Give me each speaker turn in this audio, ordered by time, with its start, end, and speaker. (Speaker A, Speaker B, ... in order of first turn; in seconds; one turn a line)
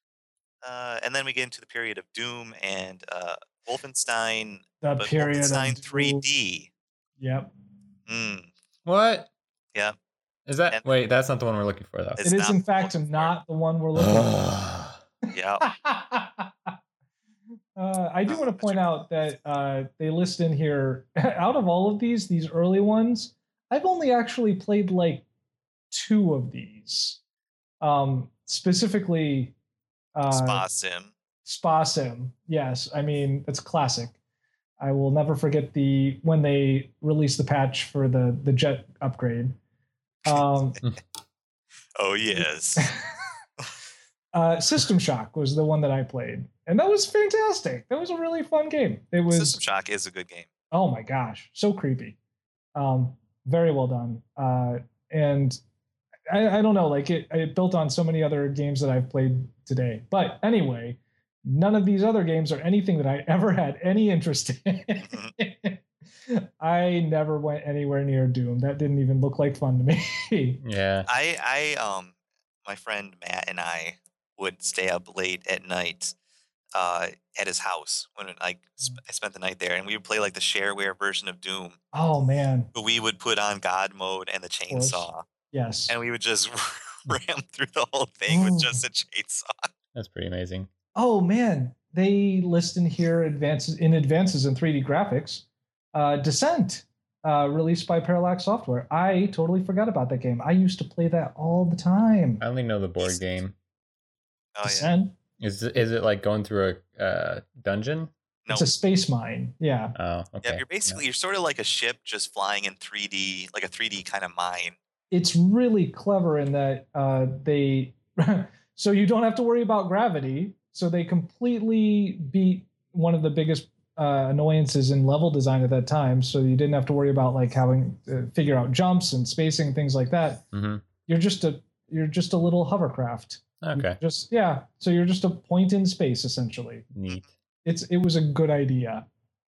Speaker A: 0.6-6.7
Speaker B: 4.8-6.3
Speaker B: 7.2-7.5
Speaker A: 8.1-8.5
Speaker C: 8.9-9.3
Speaker C: 10.5-12.2
Speaker A: 12.2-13.3
Speaker B: 12.2-14.4
Speaker C: 14.0-15.0
Speaker A: 15.3-15.7
Speaker B: 15.6-16.7
Speaker B: 17.8-25.3
Speaker A: 18.3-19.0
Speaker B: 25.9-27.2
Speaker B: 27.8-29.6
Speaker B: 30.1-30.6
Speaker A: 30.3-31.1
Speaker B: 31.4-34.2
Speaker B: 34.8-39.6
Speaker B: 40.3-40.8
Speaker A: 42.0-42.9
Speaker B: 42.4-43.0
Speaker B: 44.3-49.6
Speaker A: 49.3-50.5
Speaker B: 50.7-52.2
Speaker B: 52.8-55.6
Speaker B: 56.3-70.6
Speaker A: 65.0-65.3
Speaker C: 70.6-71.1
Speaker A: 71.1-72.1
Speaker A: 72.7-76.1
Speaker A: 76.8-81.8
Speaker B: 81.9-82.7
Speaker A: 82.7-85.2
Speaker B: 84.7-86.0
Speaker A: 85.9-89.7
Speaker B: 88.3-88.8
Speaker C: 90.0-90.7
Speaker B: 91.0-102.4
Speaker C: 102.4-103.5
Speaker A: 104.6-104.9
Speaker B: 104.7-105.2
Speaker C: 105.4-108.1
Speaker A: 108.5-108.7
Speaker B: 108.5-110.0
Speaker C: 110.0-111.0
Speaker A: 110.4-114.8
Speaker B: 115.1-130.4
Speaker C: 130.5-130.8
Speaker B: 131.1-136.9
Speaker C: 133.6-134.0
Speaker C: 136.9-137.3
Speaker B: 137.7-139.1